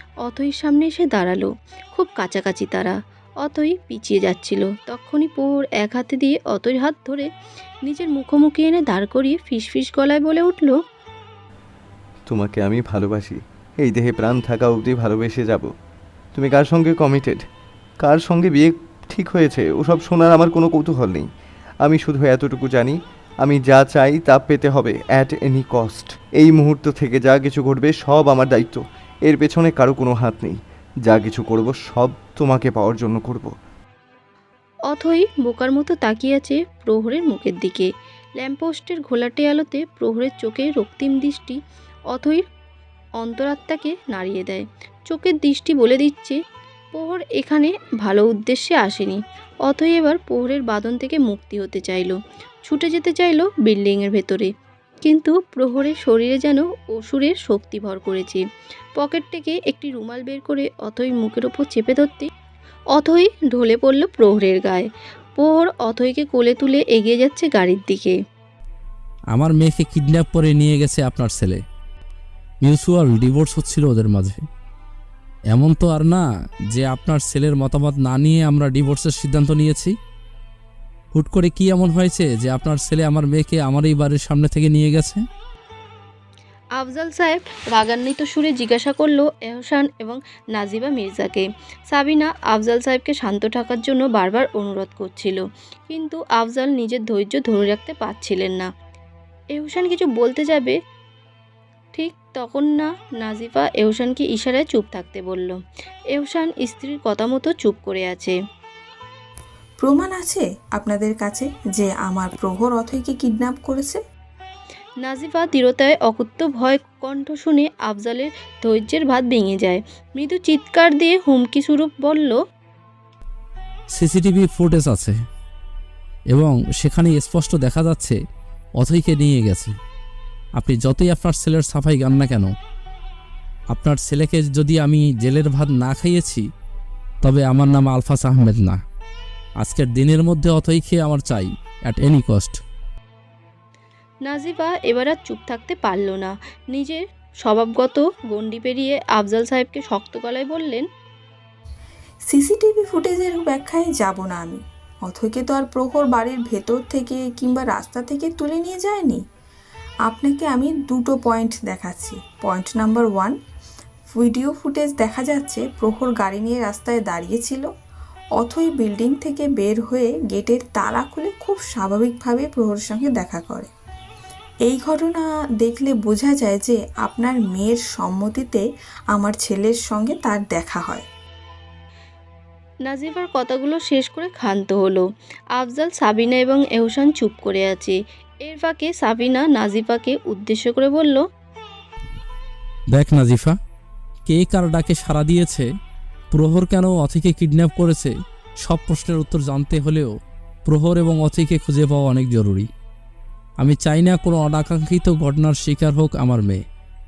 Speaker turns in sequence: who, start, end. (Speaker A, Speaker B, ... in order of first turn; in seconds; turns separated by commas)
Speaker A: 0.2-7.3, Speaker A: 7.8-10.8, Speaker B: 12.3-15.7, Speaker B: 16.3-17.4, Speaker B: 18.0-21.2, Speaker B: 21.8-30.5, Speaker B: 31.1-33.5, Speaker A: 34.9-37.9, Speaker A: 38.4-41.6, Speaker A: 42.1-42.4, Speaker A: 43.2-46.4, Speaker A: 46.9-54.5, Speaker A: 55.0-58.4, Speaker A: 59.0-62.3, Speaker A: 62.9-68.2, Speaker C: 69.3-71.6, Speaker C: 72.6-74.4, Speaker C: 75.5-79.9, Speaker C: 81.1-85.2, Speaker A: 86.8-98.7, Speaker A: 99.5-100.8, Speaker A: 102.0-105.6, Speaker A: 106.1-108.3, Speaker D: 109.8-114.0, Speaker A: 115.0-122.3, Speaker C: 123.9-125.2, Speaker C: 126.3-128.2, Speaker C: 128.8-129.7, Speaker C: 130.6-132.5, Speaker C: 133.7-136.4, Speaker C: 137.2-138.8, Speaker C: 139.6-142.6, Speaker A: 144.2-150.8, Speaker D: 152.3-159.2, Speaker D: 160.1-163.3, Speaker D: 164.1-167.7, Speaker D: 168.4-173.7, Speaker D: 174.7-181.1, Speaker A: 182.8-185.0, Speaker A: 185.6-191.2, Speaker C: 192.9-193.6, Speaker C: 194.3-195.6, Speaker C: 196.3-200.1, Speaker C: 200.7-202.7, Speaker C: 203.6-206.6